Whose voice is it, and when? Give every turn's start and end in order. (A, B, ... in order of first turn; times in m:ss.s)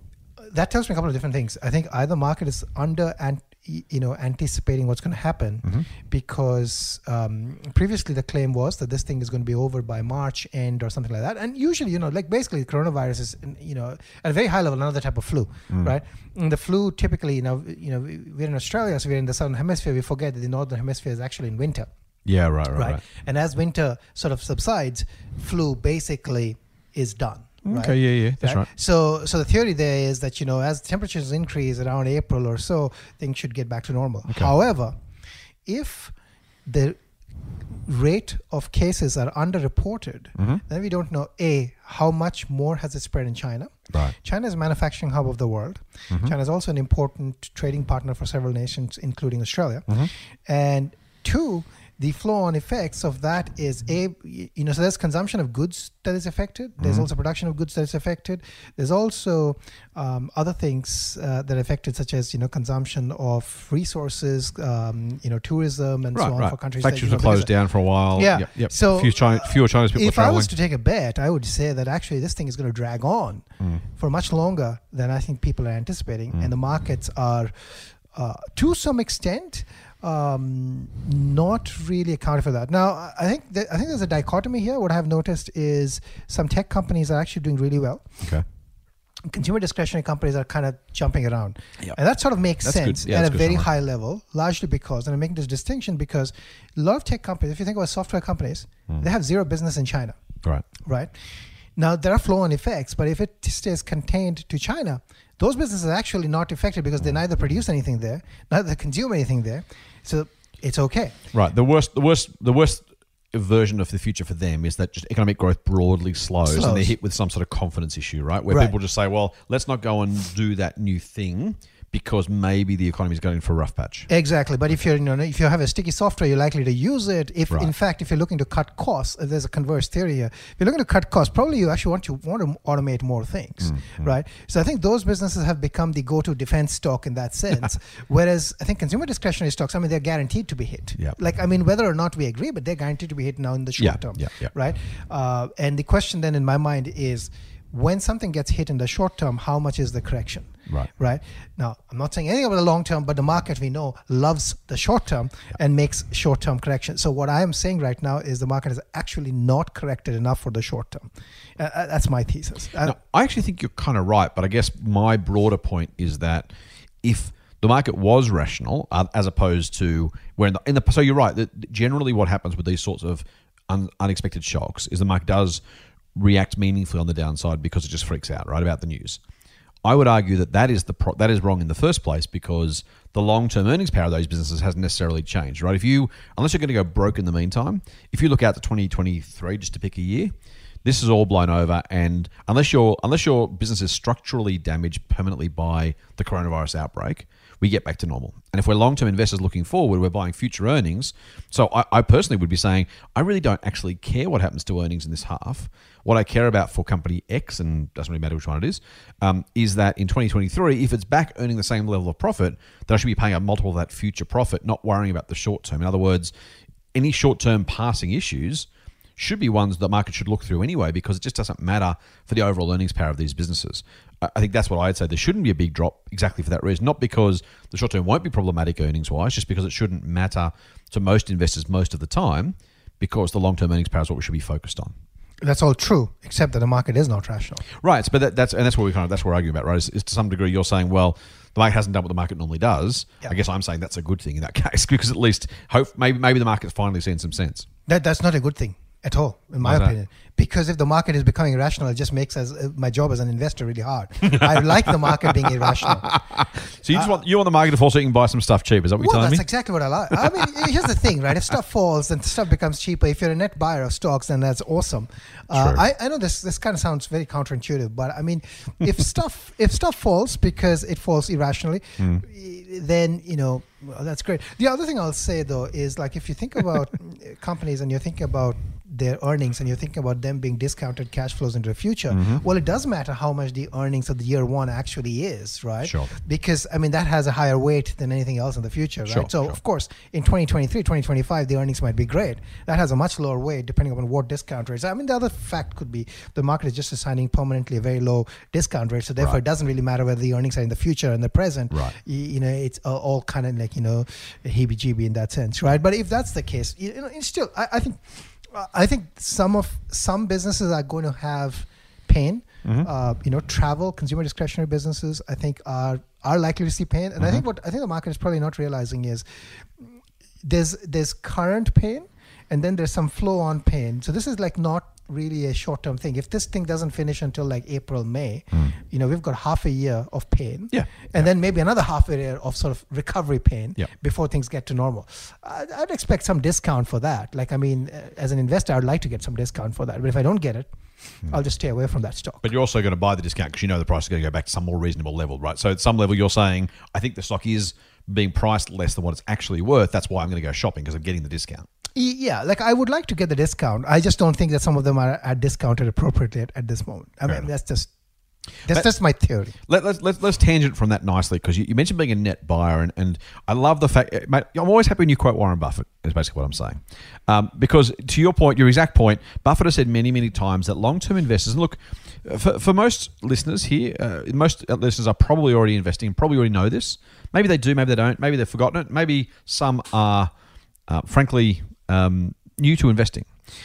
0:00.4-0:21.9 A
0:22.3-0:23.0 B
0:22.8-0:35.0 A
0:27.6-0:28.7 B
0:35.7-0:36.1 A
0:36.7-0:37.0 A
0:37.9-1:07.5 A
0:40.4-0:40.6 B
0:56.8-0:57.1 B
1:06.1-1:10.5 B
1:08.1-1:28.1 A
1:29.3-1:40.2 A
1:32.6-1:33.7 B
1:40.8-1:41.1 A
1:41.8-1:51.2 A
1:51.3-2:04.1 B
1:56.5-1:56.9 A
1:58.5-1:58.8 A
2:04.1-2:43.0 A
2:13.6-2:14.1 B
2:23.8-2:24.5 B
2:42.8-2:46.5 B
2:47.0-2:55.6 B
2:56.2-2:59.2 B
2:59.8-3:10.3 B
3:10.8-3:36.3 B
3:36.9-3:55.0 B
3:55.4-3:57.6 A
3:57.8-4:07.7 B
4:07.9-4:16.1 A
4:09.6-4:09.9 B
4:14.3-4:14.6 B
4:15.8-4:19.5 B
4:19.0-5:19.6 A
4:20.2-4:20.7 B
4:25.5-4:25.8 B
4:42.1-4:42.4 B
4:45.8-4:46.1 B
4:49.1-4:49.6 B
5:20.4-5:40.7 A
5:30.7-5:31.3 B
5:41.3-5:42.5 A
5:42.4-5:51.7 B
5:52.0-5:57.9 A
5:58.6-5:59.6 A
5:59.7-6:20.3 B
6:20.9-6:23.3 B